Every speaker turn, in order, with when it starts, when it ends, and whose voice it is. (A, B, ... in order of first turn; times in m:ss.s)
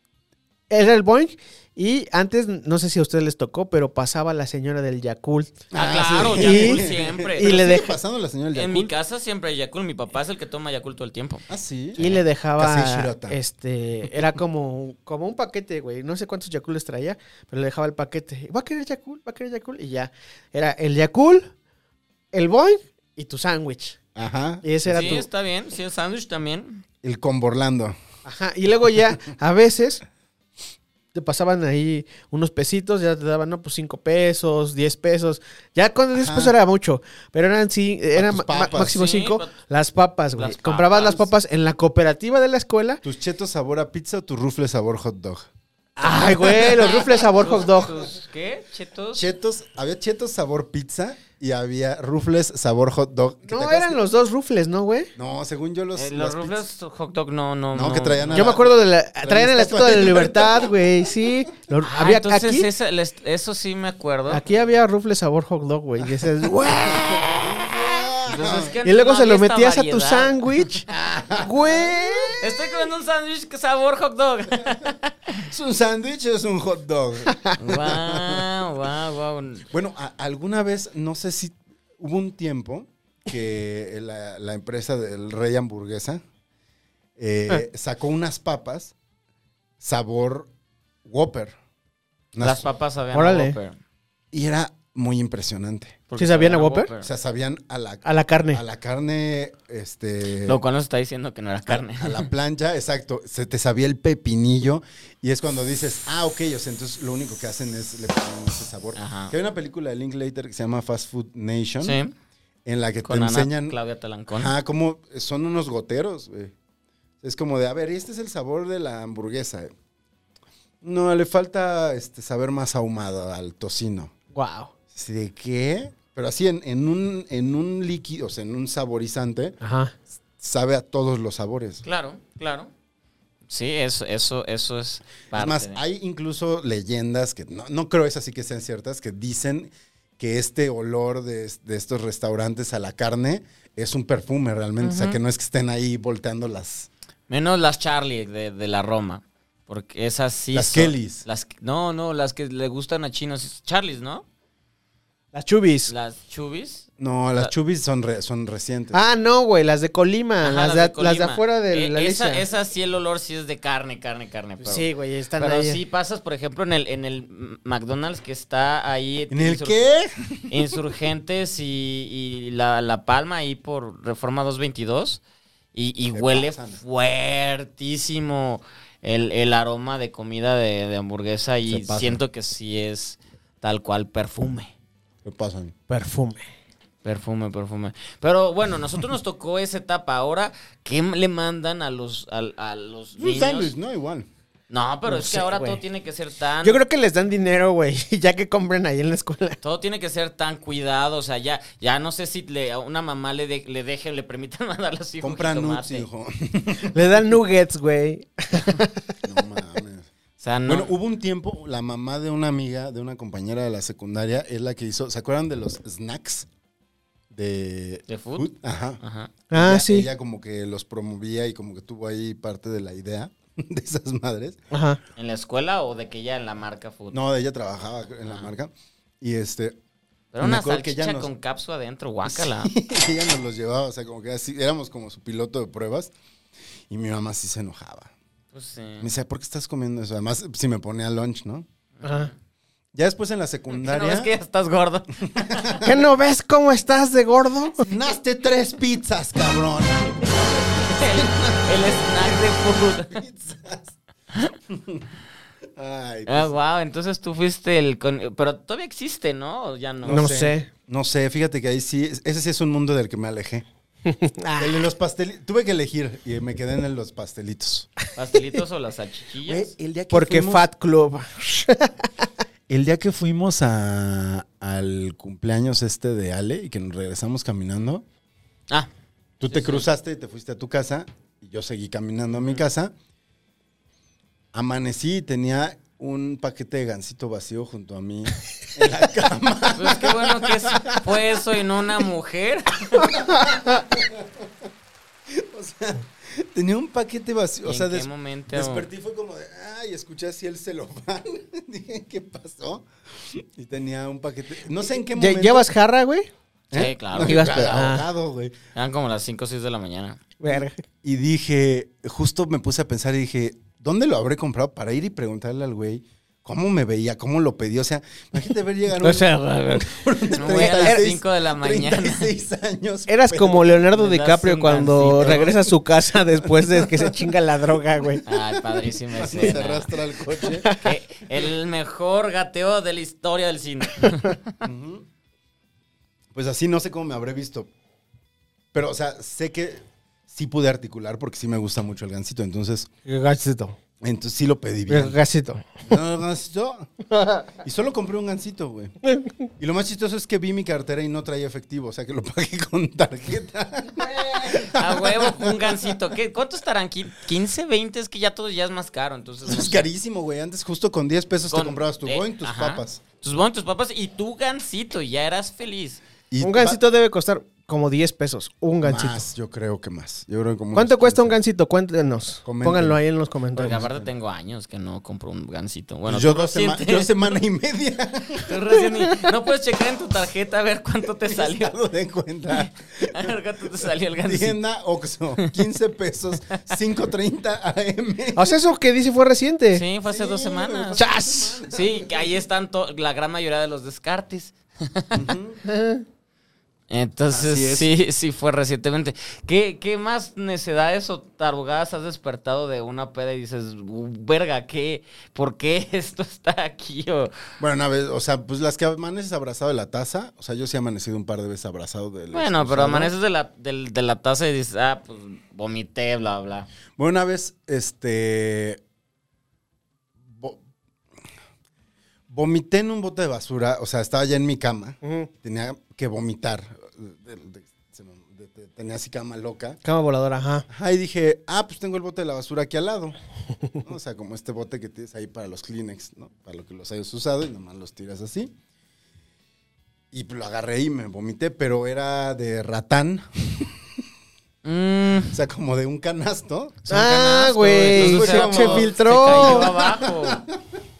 0:00.7-0:05.6 A
0:05.7-0:08.9 B
0:05.7-0:07.8 C
0:06.2-0:08.0 A
0:08.5-0:11.4 C
0:11.5-0:13.4 B
0:12.0-0:21.5 A
0:22.3-0:24.0 A
0:24.2-0:24.6 B
0:24.6-0:25.3 A
0:24.9-0:26.8 C
0:27.0-0:28.0 B
0:28.2-0:30.0 A
0:31.1-0:43.0 A
0:36.1-0:36.5 B
0:38.1-0:39.0 B
0:38.8-0:39.5 C
0:40.4-0:41.3 C
0:43.0-0:45.5 B
0:46.0-0:47.9 A
0:46.2-0:47.2 B
0:46.4-0:49.3 C
0:49.2-0:54.0 B
0:53.4-0:55.1 A
0:55.2-0:56.6 B
0:56.0-0:58.6 C
0:57.7-1:00.9 B
0:58.3-1:02.7 A
1:01.8-1:04.4 C
1:04.3-1:07.5 A
1:06.6-1:08.8 B
1:08.2-1:10.4 C
1:08.8-1:10.9 A
1:10.6-1:12.6 B
1:11.4-1:12.4 A
1:12.4-1:15.5 C
1:14.6-1:14.9 B
1:15.5-1:18.5 B
1:17.3-1:17.6 A
1:17.6-1:19.7 C
1:19.7-1:26.2 B
1:27.2-1:28.9 B
1:29.8-1:30.5 B
1:31.0-1:31.6 B
1:32.3-1:32.7 B
1:32.4-1:33.8 C
1:33.1-1:33.6 A
1:34.3-1:36.0 B
1:36.1-1:37.1 C
1:36.2-1:36.9 A
1:37.0-1:40.6 B
1:38.0-1:38.6 A
1:40.4-1:42.3 C
1:41.7-1:52.0 B
1:49.0-1:49.3 C
1:51.8-1:52.1 C
1:52.7-1:53.8 B
1:53.0-1:54.5 C
1:54.3-1:56.5 B
1:57.2-1:59.7 B
2:00.8-2:04.1 B
2:04.3-2:04.7 A
2:04.9-2:09.6 B
2:09.6-2:09.9 A
2:10.4-2:11.8 B
2:11.8-2:12.7 C
2:13.5-2:15.8 C
2:15.3-2:26.9 B
2:24.8-2:25.2 C
2:27.3-2:34.2 C
2:30.5-2:31.2 B
2:35.3-2:35.9 A
2:35.9-2:37.5 C
2:37.0-2:39.0 B
2:38.9-2:42.4 A
2:40.4-2:49.8 C
2:44.6-2:45.8 A
2:49.3-2:50.8 B
2:50.5-2:55.2 C
2:55.7-3:04.7 C
2:56.1-2:56.8 B
3:01.7-3:02.2 B
3:05.2-3:05.8 B
3:05.9-3:06.4 A
3:07.0-3:13.7 C
3:13.2-3:14.3 B
3:14.7-3:16.8 C
3:15.1-3:15.8 A
3:16.6-3:19.6 A
3:19.6-3:26.1 C
3:25.2-3:27.4 B
3:26.8-3:29.2 A
3:29.2-3:30.1 B
3:30.4-3:30.9 C
3:30.7-3:36.5 B
3:37.3-3:39.0 B
3:38.1-3:38.5 C
3:39.0-3:39.3 C
3:39.5-3:40.1 A
3:39.5-3:44.6 B
3:44.7-3:45.0 A
3:45.2-3:47.2 C
3:47.1-3:49.8 B
3:50.3-3:52.7 C
3:50.4-3:51.3 B
3:52.3-3:56.1 B
3:56.9-3:58.1 B
3:58.5-3:59.1 C
3:59.0-4:01.7 B
4:02.0-4:02.3 C
4:02.0-4:02.3 A
4:02.9-4:04.3 B
4:03.7-4:05.9 C
4:05.2-4:06.0 B
4:05.8-4:07.8 A
4:07.8-4:14.0 B
4:10.7-4:13.2 C
4:14.7-4:15.1 B
4:15.8-4:16.5 B
4:16.3-4:20.5 C
4:20.0-4:23.6 B
4:20.1-4:20.7 A
4:24.1-4:24.9 A
4:24.6-4:27.9 B
4:28.2-4:29.7 C
4:29.5-4:30.7 B
4:30.1-4:32.1 A
4:32.7-4:38.0 B
4:39.4-4:42.9 B
4:39.4-4:39.9 C
4:44.5-4:51.4 B
4:49.7-4:53.2 C
4:52.9-4:54.5 B
4:55.3-5:05.7 B
4:57.6-4:58.9 C
5:05.0-5:06.3 A
5:06.7-5:08.6 B
5:06.7-5:07.5 C
5:07.2-5:08.1 A
5:08.8-5:10.2 C
5:10.4-5:10.8 A
5:10.5-5:23.9 B
5:19.0-5:21.0 A
5:20.4-5:22.3 C
5:23.1-5:28.2 A
5:23.9-5:25.6 C
5:25.1-5:27.3 B
5:28.1-5:30.8 B
5:28.3-5:30.0 C
5:30.4-5:30.9 A
5:30.8-5:34.4 C
5:34.6-5:35.1 B
5:36.3-5:37.7 B
5:38.7-5:42.9 B
5:43.1-5:43.8 A
5:44.0-5:45.2 B
5:44.9-5:45.7 A
5:45.9-5:46.9 B
5:47.1-5:47.5 A
5:47.6-5:49.0 B
5:49.6-5:56.0 B
5:54.5-5:59.9 C
5:59.4-6:03.0 B
6:01.5-6:06.0 C
6:06.3-6:06.8 B
6:06.4-6:09.2 A
6:08.8-6:11.4 B
6:10.7-6:13.8 A
6:12.4-6:13.0 B
6:13.6-6:14.1 B
6:13.6-6:17.4 C
6:16.1-6:18.6 B
6:18.4-6:21.7 C
6:21.3-6:28.6 B
6:22.5-6:24.6 C
6:28.4-6:29.8 A
6:29.7-6:31.0 C
6:30.0-6:32.4 B
6:31.0-6:31.6 A
6:31.7-6:35.3 C
6:35.1-6:35.6 B
6:35.6-6:36.0 A
6:36.9-6:47.3 C
6:37.3-6:37.9 B
6:47.6-6:53.1 B
6:52.3-6:56.7 C
6:57.0-6:58.8 B
7:00.3-7:00.6 B
7:02.3-7:09.8 B
7:05.0-7:05.3 A
7:09.8-7:10.7 A
7:10.7-7:13.2 B
7:13.8-7:18.5 B
7:20.1-7:23.8 B
7:24.6-7:25.4 C
7:25.3-7:26.8 B
7:26.9-7:30.4 C
7:26.9-7:29.7 A
7:27.9-7:30.8 B